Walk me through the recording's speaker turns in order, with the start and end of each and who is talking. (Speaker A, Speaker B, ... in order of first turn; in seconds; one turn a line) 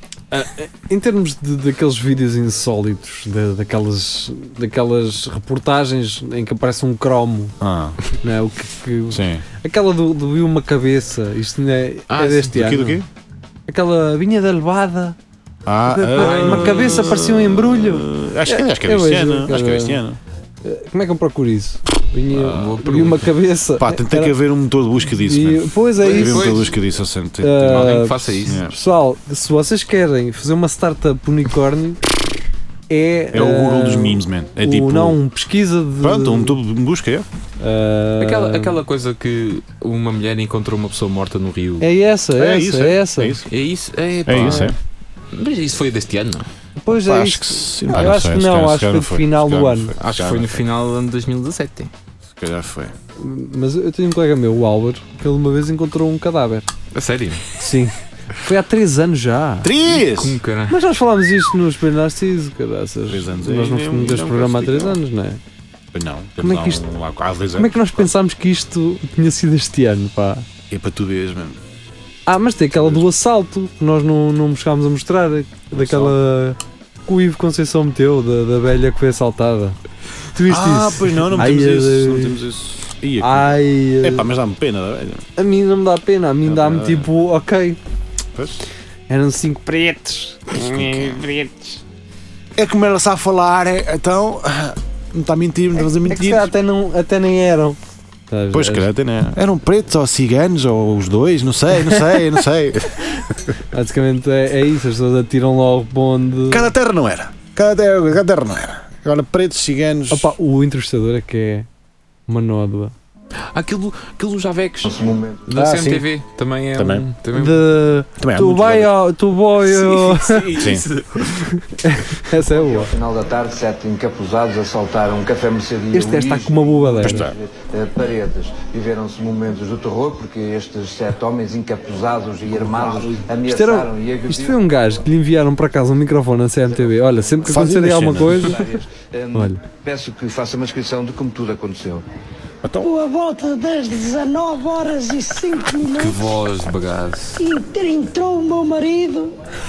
Speaker A: 0.3-7.5
Speaker B: 7.6-8.0
Speaker A: 8.2-13.0
Speaker B: 9.1-9.4
Speaker C: 12.1-12.8
Speaker B: 12.3-13.1
Speaker A: 13.7-15.2
Speaker B: 15.7-20.2
Speaker A: 15.9-20.0
Speaker C: 16.1-17.1
Speaker A: 20.6-24.4
Speaker B: 22.3-22.7
Speaker C: 22.5-23.3
Speaker B: 23.8-27.8
Speaker A: 25.1-26.6
Speaker C: 26.0-26.8
Speaker A: 27.4-32.0
Speaker C: 27.6-28.6
Speaker B: 28.4-28.7
Speaker A: 32.9-36.6
Speaker B: 33.3-35.2
Speaker B: 36.0-37.3
Speaker A: 37.6-38.8
Speaker C: 38.2-41.9
Speaker A: 41.8-43.4
Speaker B: 42.4-43.5
Speaker C: 43.5-44.7
Speaker B: 44.3-44.8
Speaker A: 44.4-44.7
Speaker C: 45.3-46.5
Speaker A: 46.8-49.9
Speaker B: 46.9-50.6
Speaker C: 50.0-51.9
Speaker B: 52.4-53.0
Speaker A: 53.2-56.7
Speaker C: 56.9-57.5
Speaker A: 57.6-60.0
Speaker B: 59.6-60.4
Speaker C: 60.0-60.8
Speaker A: 60.7-65.4
Speaker B: 63.1-65.0
Speaker B: 65.9-68.1
Speaker A: 66.4-66.9
Speaker A: 67.6-70.5
Speaker B: 70.7-71.6
Speaker A: 72.3-79.8
Speaker B: 72.7-73.1
Speaker B: 75.7-76.2
Speaker A: 80.3-82.4
Speaker B: 80.5-85.3
Speaker A: 83.2-84.3
Speaker A: 85.4-87.8
Speaker B: 86.4-87.1
Speaker B: 88.3-88.6
Speaker A: 89.1-91.8
Speaker B: 90.5-91.2
Speaker B: 92.6-96.5
Speaker A: 96.0-97.8
Speaker A: 98.3-98.9
Speaker B: 98.5-103.2
Speaker A: 103.7-106.7
Speaker B: 106.5-110.3
Speaker A: 110.1-111.7
Speaker A: 112.3-112.9
Speaker C: 113.5-114.9
Speaker D: 114.8-115.5
Speaker C: 115.5-117.7
Speaker B: 115.5-116.1
Speaker B: 116.8-117.1
Speaker A: 117.3-120.6
Speaker B: 118.2-119.0
Speaker C: 119.6-121.5
Speaker B: 120.6-120.9
Speaker A: 121.8-122.9
Speaker D: 122.5-134.7
Speaker A: 125.9-127.3
Speaker B: 127.0-127.3
Speaker A: 133.5-138.6
Speaker D: 137.1-137.5
Speaker B: 137.5-138.6
Speaker D: 138.4-142.0
Speaker A: 139.3-139.6
Speaker B: 142.6-142.9
Speaker E: 142.8-146.3
Speaker C: 145.9-147.4
Speaker E: 147.4-149.3